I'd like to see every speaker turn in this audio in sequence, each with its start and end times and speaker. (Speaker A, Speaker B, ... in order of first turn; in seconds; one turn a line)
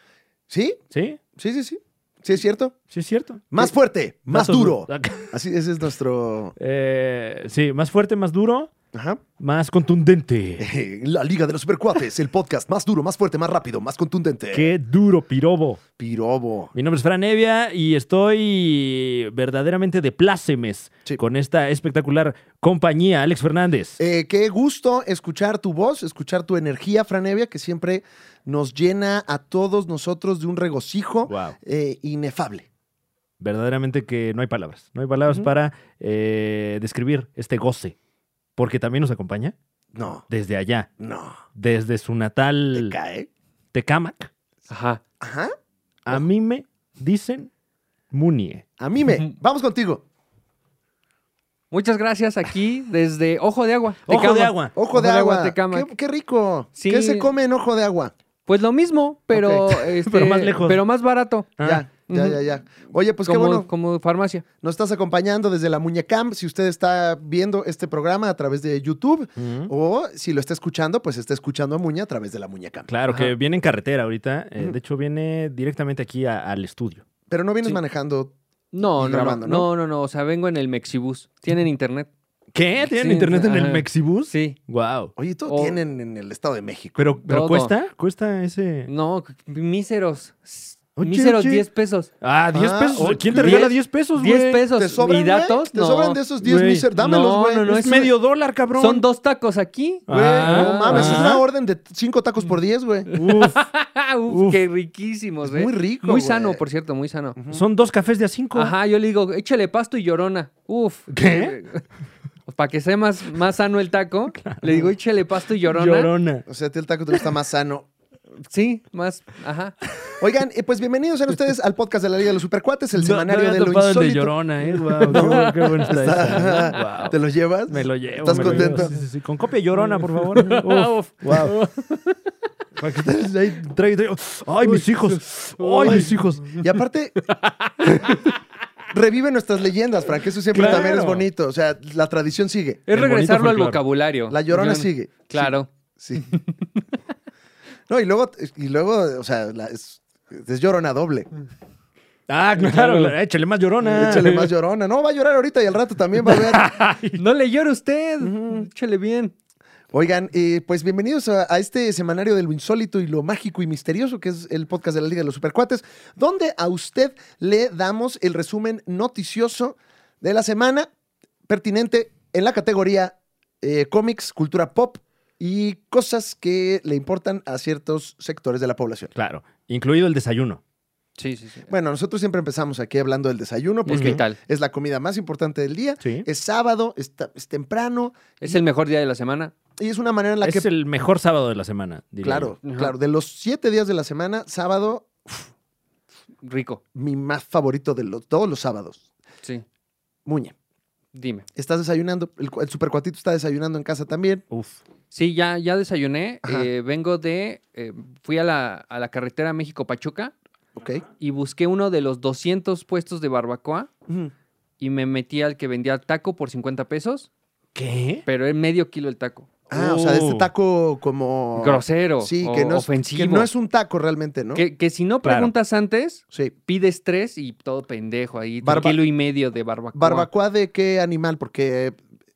Speaker A: 0.5-0.8
Speaker B: 0.9-1.2
Speaker A: 1.4-2.7
Speaker B: 2.9-3.7
Speaker A: 3.5-6.5
Speaker B: 4.3-5.3
Speaker B: 6.5-8.7
Speaker A: 8.9-9.2
Speaker B: 9.4-10.7
Speaker A: 10.6-14.7
Speaker B: 14.5-15.8
Speaker A: 16.0-16.7
Speaker B: 16.7-24.0
Speaker A: 24.0-32.7
Speaker B: 31.2-31.6
Speaker B: 33.4-38.0
Speaker B: 38.6-39.5
Speaker A: 39.9-40.2
Speaker B: 40.3-40.9
Speaker A: 41.0-41.4
Speaker B: 41.5-43.0
Speaker A: 42.7-43.3
Speaker B: 43.7-44.3
Speaker C: 44.7-45.0
Speaker A: 45.2-45.5
Speaker B: 46.0-47.5
Speaker B: 48.1-48.6
Speaker A: 48.8-50.0
Speaker C: 51.7-55.9
Speaker B: 54.1-54.7
Speaker A: 54.7-58.1
Speaker C: 56.8-57.3
Speaker C: 58.5-61.5
Speaker A: 59.3-59.9
Speaker B: 60.0-60.8
Speaker B: 61.6-61.8
Speaker A: 61.6-63.7
Speaker C: 62.1-62.4
Speaker C: 63.2-64.4
Speaker A: 64.6-72.9
Speaker B: 69.4-69.7
Speaker B: 72.9-77.0
Speaker A: 77.3-78.3
Speaker C: 78.7-82.1
Speaker A: 79.0-79.7
Speaker B: 82.5-85.1
Speaker C: 82.8-84.6
Speaker A: 85.2-87.2
Speaker C: 85.5-85.8
Speaker B: 87.0-88.9
Speaker C: 87.2-87.7
Speaker C: 88.9-92.1
Speaker B: 91.0-91.7
Speaker B: 92.2-94.6
Speaker A: 92.5-93.7
Speaker C: 93.4-96.2
Speaker A: 94.7-97.7
Speaker B: 96.4-96.8
Speaker C: 97.0-98.1
Speaker B: 97.7-99.0
Speaker C: 98.7-101.4
Speaker B: 100.1-101.4
Speaker A: 100.1-103.1
Speaker C: 103.1-107.4
Speaker B: 103.1-103.7
Speaker B: 104.3-104.6
Speaker A: 105.4-106.6
Speaker A: 107.3-107.6
Speaker B: 107.5-108.7
Speaker C: 108.5-111.8
Speaker B: 111.1-111.5
Speaker C: 112.5-116.1
Speaker B: 114.4-114.9
Speaker B: 115.7-116.4
Speaker A: 116.5-117.9
Speaker C: 118.5-119.8
Speaker A: 120.2-124.4
Speaker B: 123.0-127.2
Speaker C: 124.9-125.9
Speaker A: 125.1-129.0
Speaker B: 127.7-131.6
Speaker C: 128.3-128.9
Speaker C: 129.8-132.2
Speaker B: 132.8-136.6
Speaker C: 134.6-136.6
Speaker A: 136.6-137.2
Speaker C: 137.2-138.3
Speaker A: 138.9-142.8
Speaker B: 140.5-141.2
Speaker C: 140.6-140.9
Speaker C: 142.9-145.7
Speaker B: 142.9-143.8
Speaker A: 144.3-146.3
Speaker C: 146.2-146.8
Speaker A: 147.9-151.3
Speaker B: 152.3-154.5
Speaker C: 152.6-153.1
Speaker A: 153.8-156.7
Speaker B: 156.2-157.2
Speaker C: 157.1-159.3
Speaker A: 158.2-158.7
Speaker A: 159.9-170.9
Speaker A: 171.5-179.1
Speaker B: 179.1-180.6
Speaker C: 181.2-181.7
Speaker A: 181.7-188.6
Speaker B: 183.9-184.2
Speaker C: 183.9-184.4
Speaker B: 186.0-186.3
Speaker C: 188.4-189.5
Speaker A: 189.8-190.7
Speaker B: 190.4-192.5
Speaker A: 192.2-195.5
Speaker C: 192.6-192.9
Speaker C: 196.4-196.8
Speaker A: 196.9-199.1
Speaker A: 200.2-200.5
Speaker C: 201.1-201.4
Speaker A: 201.5-204.4
Speaker B: 204.5-204.8
Speaker C: 205.1-210.3
Speaker A: 210.8-211.0
Speaker C: 211.2-213.9
Speaker A: 214.1-214.3
Speaker C: 214.8-217.3
Speaker B: 217.7-218.2
Speaker C: 218.2-219.7
Speaker A: 219.7-224.6
Speaker B: 219.7-220.5
Speaker C: 221.6-223.5
Speaker C: 224.5-230.3
Speaker B: 225.2-225.5
Speaker A: 228.6-229.0
Speaker A: 229.9-232.0